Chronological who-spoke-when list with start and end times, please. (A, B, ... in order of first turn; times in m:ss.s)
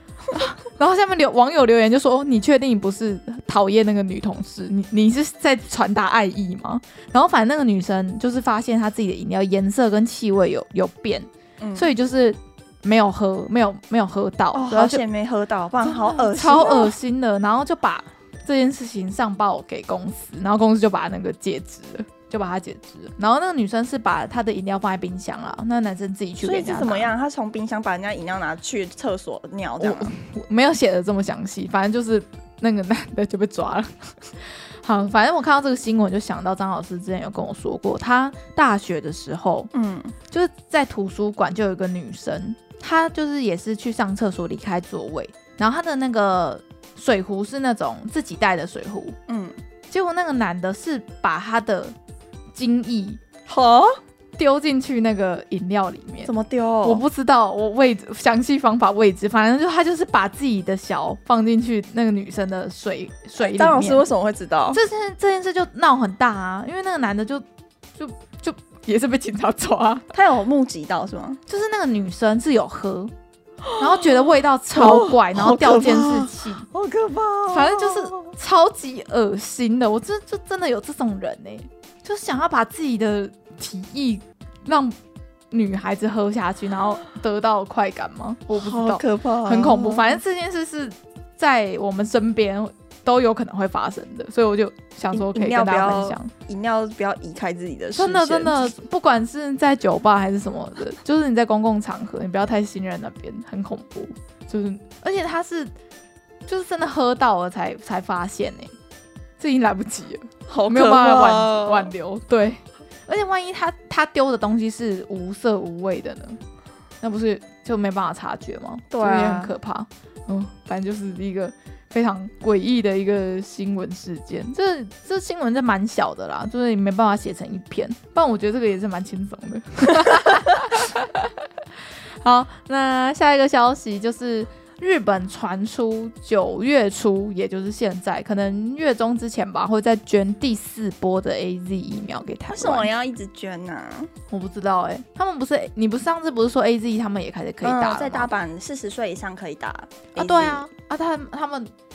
0:00.3-0:15.0 A
0:11.6-0:11.9 B
0:14.5-0:16.9 B
0:15.8-0:27.1 A
0:26.4-0:30.2 B
0:29.8-0:39.7 A
0:39.7-0:40.2 B
0:40.3-0:49.2 A
0:49.3-0:49.6 B
0:49.9-0:52.0 A
0:52.5-0:53.2 A
0:53.5-0:54.0 B
0:54.4-0:56.3 A
0:56.2-0:57.0 B
0:56.8-1:04.1 A
1:03.4-1:04.8 B
1:04.7-1:07.4 A
1:08.0-1:10.1 A
1:10.1-1:11.4 B
1:11.5-1:13.1 A
1:13.6-1:18.3 B
1:13.8-1:16.7 A
1:17.5-1:25.0 A
1:25.5-1:36.3 A
1:28.5-1:30.2 B
1:35.1-1:38.7 B
1:38.0-1:45.7 A
1:46.5-1:48.7 A
1:49.4-1:56.4 A
1:50.5-1:51.9 B
1:57.0-2:11.3 A
1:58.9-1:59.5 B
2:12.2-2:22.9 A
2:22.5-2:24.1 B
2:24.3-2:28.3 A
2:27.6-2:30.7 B
2:30.2-2:31.7 A